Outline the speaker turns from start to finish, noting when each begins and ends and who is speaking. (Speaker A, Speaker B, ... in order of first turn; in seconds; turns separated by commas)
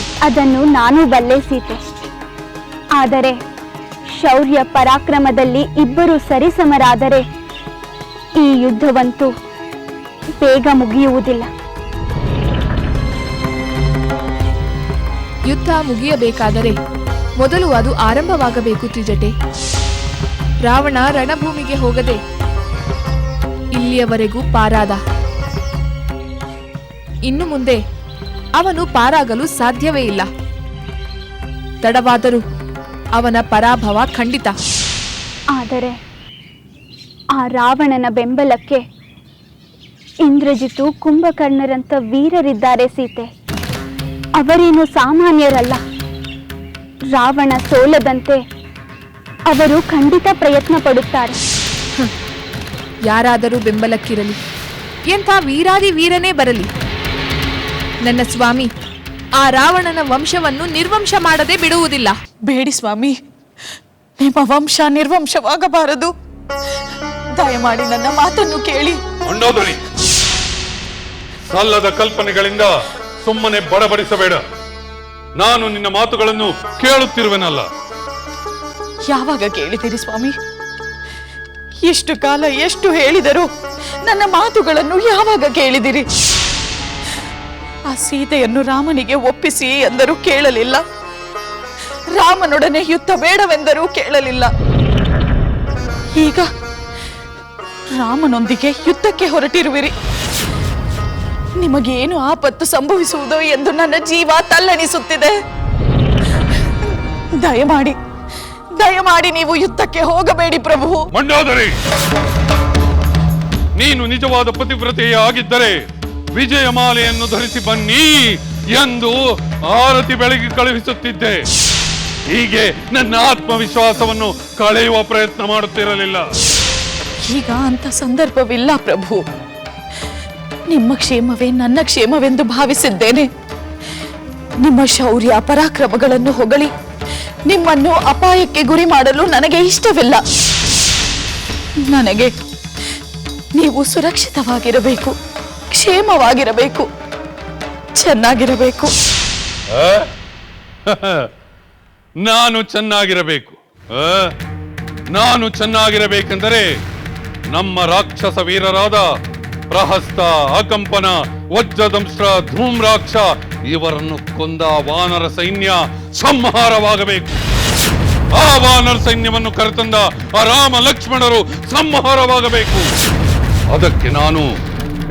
Speaker A: 0.3-1.8, Speaker A: 3.0-3.4, Speaker A: 4.2-7.2, Speaker A: 8.4-9.3, Speaker A: 10.4-11.5, Speaker B: 15.5-16.8, Speaker B: 17.4-19.3, Speaker B: 20.6-22.2, Speaker B: 23.7-25.0, Speaker B: 27.3-27.8, Speaker B: 28.6-30.3, Speaker B: 31.8-32.4, Speaker B: 33.2-34.6, Speaker A: 35.5-36.0, Speaker A: 37.4-38.8, Speaker A: 40.3-43.3, Speaker A: 44.4-45.8, Speaker A: 47.1-48.4, Speaker A: 49.5-51.4, Speaker B: 53.0-54.4, Speaker B: 55.1-56.7, Speaker B: 58.0-58.7, Speaker B: 59.4-62.1, Speaker C: 62.4-63.1, Speaker C: 64.2-66.1, Speaker C: 67.3-69.0, Speaker D: 69.3-69.8, Speaker D: 71.5-72.7, Speaker D: 73.2-74.4, Speaker D: 75.4-77.7, Speaker C: 79.0-80.4, Speaker C: 81.8-83.5, Speaker C: 84.0-86.1, Speaker C: 87.9-90.8, Speaker C: 92.1-94.5, Speaker C: 96.1-96.5, Speaker C: 97.9-100.0, Speaker C: 101.6-105.4, Speaker C: 106.8-108.0, Speaker C: 108.8-111.1, Speaker D: 111.2-111.8, Speaker D: 113.8-115.8, Speaker D: 116.3-119.2, Speaker D: 119.7-121.5, Speaker D: 122.3-126.2, Speaker C: 127.3-129.2, Speaker C: 130.7-133.3, Speaker C: 134.6-136.7, Speaker C: 137.5-140.2, Speaker C: 141.8-142.4, Speaker C: 143.5-145.2, Speaker C: 145.7-146.9, Speaker C: 147.9-148.9, Speaker D: 149.7-150.1, Speaker D: 150.9-151.3, Speaker D: 152.2-154.3, Speaker D: 155.1-156.7, Speaker D: 157.5-159.1, Speaker D: 159.7-167.3, Speaker D: 168.3-172.9, Speaker D: 173.7-174.5